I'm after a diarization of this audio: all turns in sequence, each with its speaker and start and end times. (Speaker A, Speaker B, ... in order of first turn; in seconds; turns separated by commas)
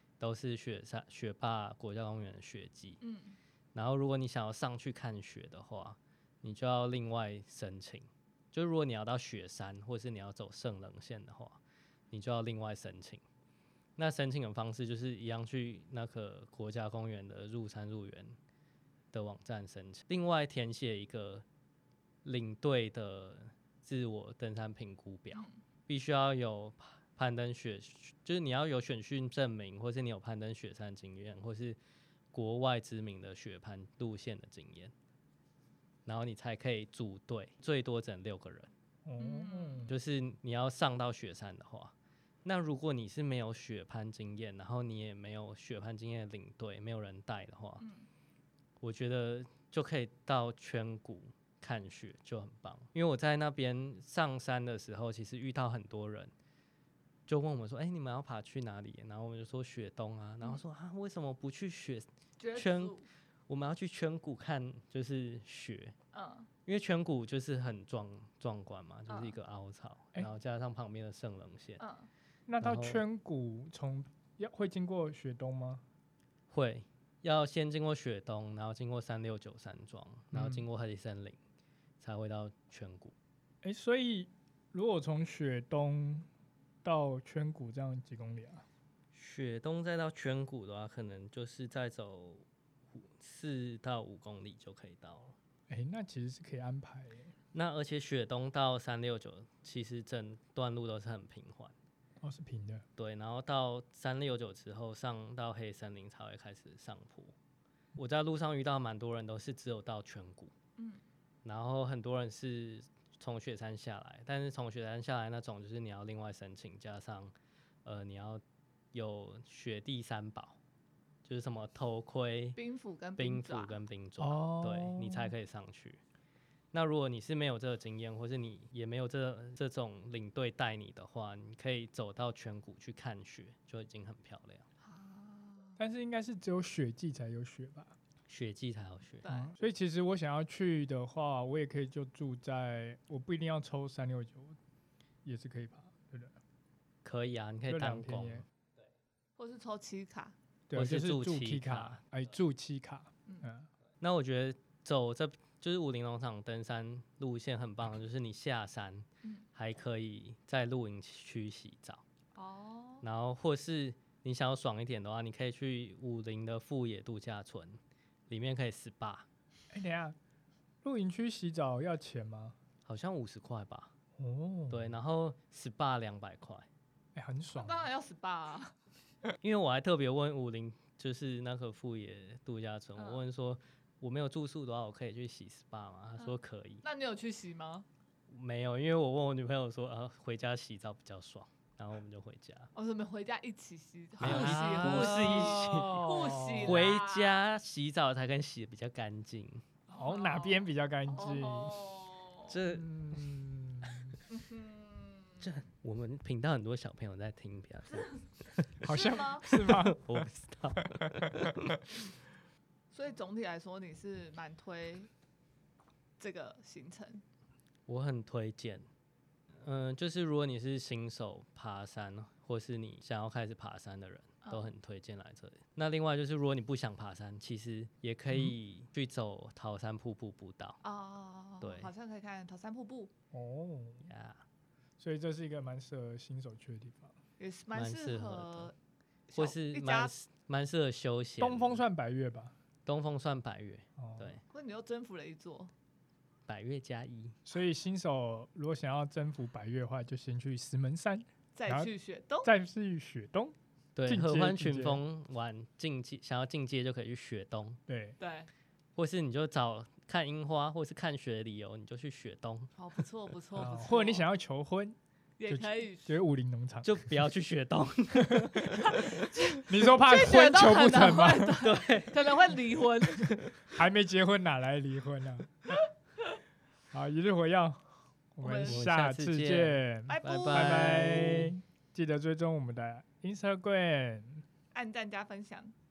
Speaker A: 0.2-3.0, Speaker B: 3.0-3.4, Speaker A: 3.7-11.6, Speaker A: 12.1-13.2, Speaker A: 14.0-18.4, Speaker A: 19.1-21.4, Speaker A: 22.2-31.8, Speaker B: 25.3-25.6, Speaker A: 32.3-34.9, Speaker A: 36.0-38.7, Speaker C: 39.0-39.9, Speaker B: 39.2-39.9, Speaker A: 39.9-41.9, Speaker A: 42.4-47.8, Speaker B: 47.8-48.1, Speaker A: 48.8-56.3, Speaker A: 57.3-62.9, Speaker B: 62.4-63.0, Speaker A: 63.5-65.9, Speaker B: 66.1-66.5, Speaker A: 66.7-71.8, Speaker B: 69.1-69.4, Speaker B: 71.8-72.1, Speaker C: 72.5-75.8, Speaker A: 72.6-73.0, Speaker A: 76.5-81.4, Speaker C: 80.3-80.7, Speaker A: 82.0-83.1, Speaker C: 83.6-86.3, Speaker C: 86.8-88.6, Speaker A: 89.1-95.3, Speaker C: 95.7-97.3, Speaker A: 97.5-101.7, Speaker C: 102.2-102.8, Speaker A: 103.0-107.3, Speaker A: 108.0-110.5, Speaker A: 111.4-117.3, Speaker A: 117.8-118.4, Speaker A: 118.9-120.6, Speaker A: 121.2-122.6, Speaker B: 122.5-123.8, Speaker A: 123.2-126.0, Speaker C: 124.2-125.3, Speaker A: 126.7-134.6, Speaker B: 134.8-135.8, Speaker C: 135.8-137.9, Speaker A: 138.3-139.2, Speaker B: 139.2-139.5, Speaker C: 139.2-144.6, Speaker C: 145.2-146.3, Speaker A: 147.0-148.4, Speaker C: 147.7-148.4, Speaker B: 149.4-150.3, Speaker C: 150.7-153.7, Speaker A: 150.7-152.0, Speaker A: 154.0-162.0, Speaker B: 162.3-163.0, Speaker A: 163.0-169.3, Speaker C: 169.7-170.2, Speaker C: 170.8-172.5, Speaker A: 172.8-173.9, Speaker C: 174.2-175.0, Speaker A: 174.7-176.7, Speaker C: 177.1-177.9, Speaker B: 177.5-178.7, Speaker A: 179.4-186.8, Speaker B: 186.2-187.8, Speaker A: 188.3-192.7, Speaker B: 192.7-197.4, Speaker A: 194.2-196.1, Speaker C: 194.2-196.9, Speaker A: 196.6-199.6, Speaker B: 199.9-202.5, Speaker C: 199.9-201.8, Speaker A: 202.5-203.2, Speaker C: 202.6-204.2, Speaker B: 204.3-205.5, Speaker A: 205.4-208.7, Speaker B: 207.9-208.3, Speaker C: 208.8-211.1, Speaker B: 208.8-209.5, Speaker A: 209.5-211.9, Speaker B: 212.9-215.1, Speaker B: 216.2-217.2, Speaker A: 217.9-218.8, Speaker A: 219.6-230.8, Speaker B: 224.4-224.7, Speaker C: 228.3-228.5, Speaker B: 230.8-233.1, Speaker A: 231.6-231.9, Speaker C: 233.3-234.1, Speaker A: 234.1-234.4, Speaker C: 235.0-237.1, Speaker B: 237.4-238.7, Speaker A: 237.7-238.7, Speaker B: 239.3-240.1, Speaker A: 239.3-241.8, Speaker C: 241.4-242.5, Speaker A: 242.8-244.4, Speaker C: 244.0-244.3, Speaker B: 244.5-245.7, Speaker A: 246.5-247.3, Speaker C: 247.4-251.9, Speaker B: 251.5-252.5, Speaker C: 252.4-253.5, Speaker A: 253.9-257.8, Speaker C: 254.1-255.0, Speaker C: 257.9-258.2, Speaker B: 258.2-258.5, Speaker A: 259.0-262.7, Speaker B: 262.8-264.2, Speaker C: 263.5-265.0, Speaker B: 265.4-266.1, Speaker C: 265.5-267.2, Speaker A: 266.8-269.4, Speaker C: 268.1-268.9, Speaker B: 268.8-273.3, Speaker C: 269.7-271.6, Speaker A: 271.6-272.6, Speaker A: 273.2-273.7, Speaker C: 273.7-275.7, Speaker C: 276.9-284.4, Speaker B: 278.4-278.8, Speaker A: 278.6-281.5, Speaker B: 280.1-281.0, Speaker B: 284.7-285.7